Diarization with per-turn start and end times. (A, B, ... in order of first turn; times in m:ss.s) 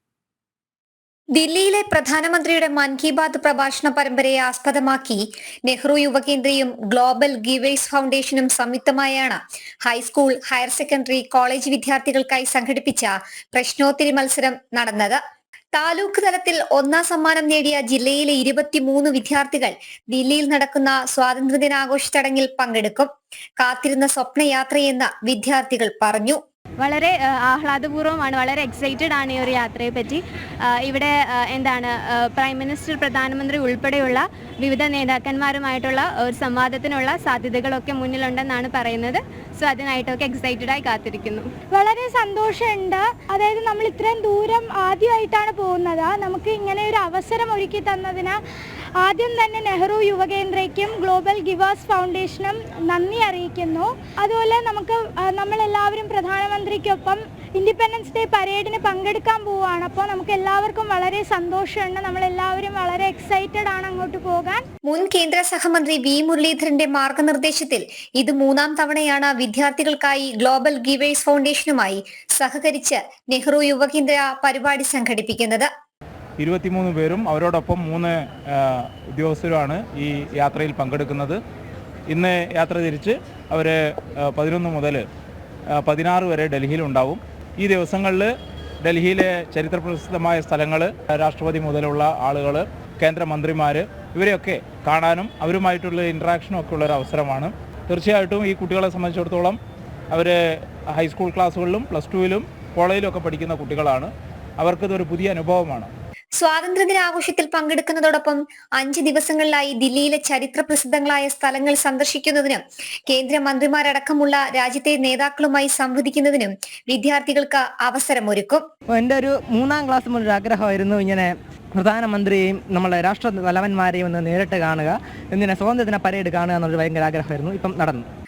0:01.4-0:15.2 A
0:15.7-0:26.4 A
0:26.8-0:41.5 B
0:41.7-0:48.4 C
0:49.0-1:04.6 C
1:04.8-1:15.7 A
1:16.4-1:21.4 D
1:22.1-1:25.0 D
1:25.7-1:28.3 D
1:28.8-1:39.6 D
1:40.1-1:45.9 D
1:46.4-1:58.6 A
1:58.9-2:08.1 E